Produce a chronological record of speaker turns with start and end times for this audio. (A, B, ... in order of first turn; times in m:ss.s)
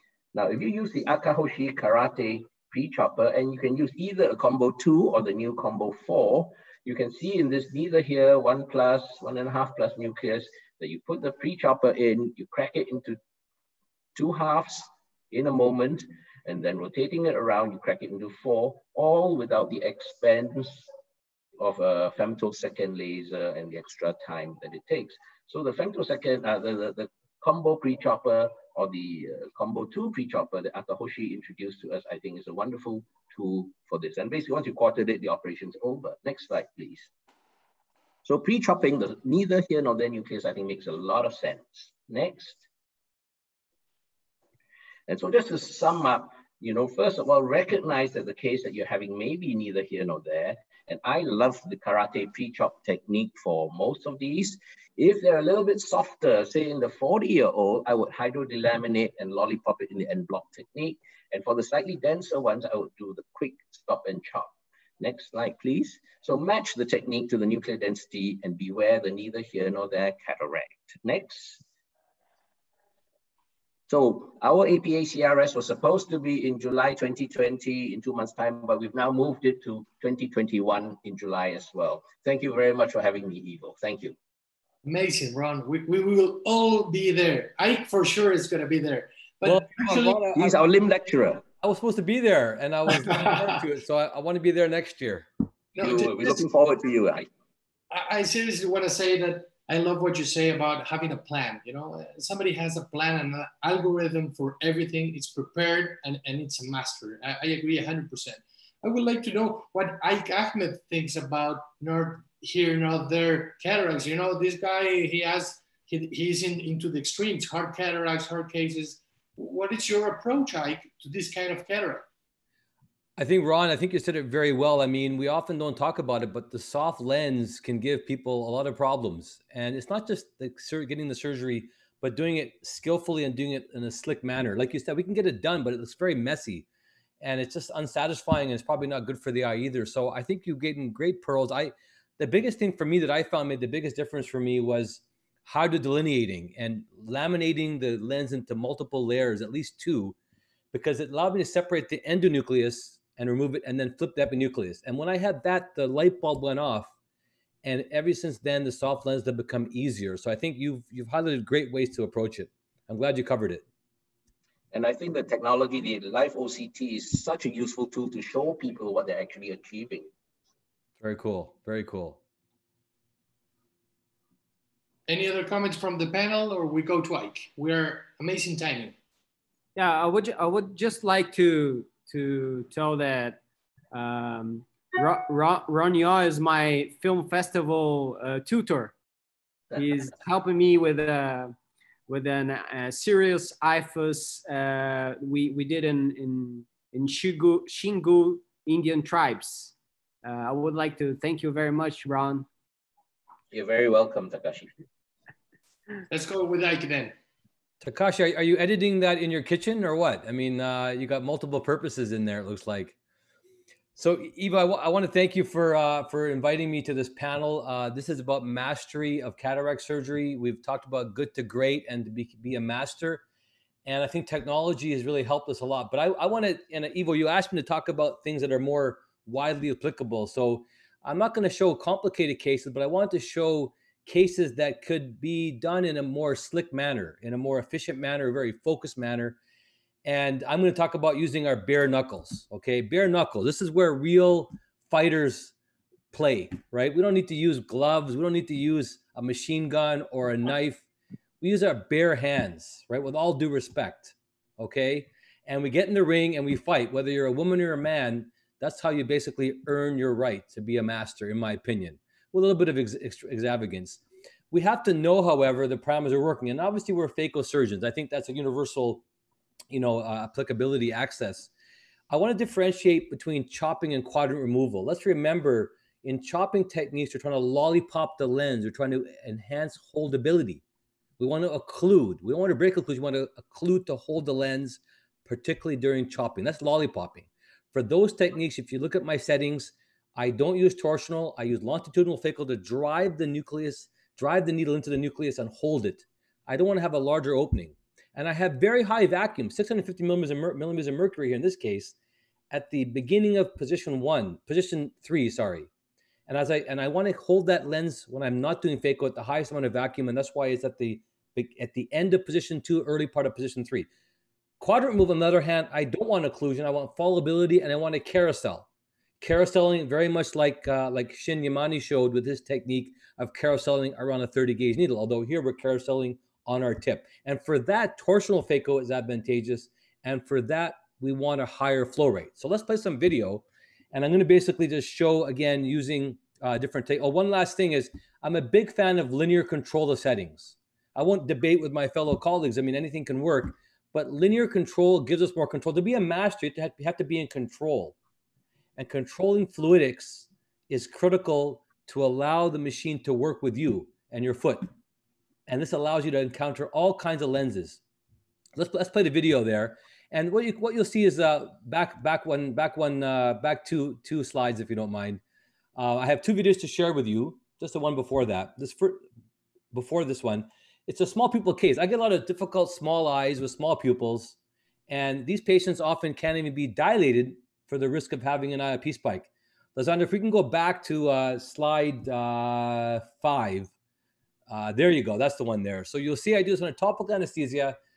0:00.3-0:13.2 A
0:14.2-0:20.9 A
0:21.6-0:37.1 A
0:38.2-0:42.6 A
0:45.1-1:11.6 A
1:13.9-1:24.2 A
1:24.8-1:30.2 B
1:29.4-1:30.6 C
1:30.4-1:31.4 A
1:31.6-1:35.3 C
1:32.9-1:33.6 B
1:35.7-1:36.4 B
1:35.8-1:37.3 A
1:37.9-2:02.1 B
2:03.2-2:16.7 C
2:17.2-2:30.2 C
2:30.7-2:36.9 C
2:37.6-2:43.6 C
2:44.7-2:50.1 A
2:51.0-2:52.2 C
2:55.1-2:59.0 B
2:59.8-3:03.4 D
3:03.9-3:09.0 D
3:09.7-3:11.5 D
3:12.1-3:22.5 D
3:23.5-3:24.7 A
3:26.1-3:27.1 B
3:27.8-3:33.0 C
3:34.0-3:43.2 C
3:43.8-3:59.4 C
4:00.0-4:05.5 C
4:06.1-4:10.8 C
4:11.4-4:29.0 C
4:29.7-4:31.5 C
4:32.1-4:40.6 C
4:41.2-5:02.0 C
5:02.5-5:05.7 C
5:06.3-5:13.9 C
5:14.6-5:18.7 C
5:19.2-5:48.0 C
5:48.8-5:54.7 C
5:55.5-5:57.8 C
5:58.6-6:05.2 C
6:05.8-6:09.0 C
6:09.7-6:14.4 C
6:14.9-6:23.7 C
6:24.5-6:27.8 C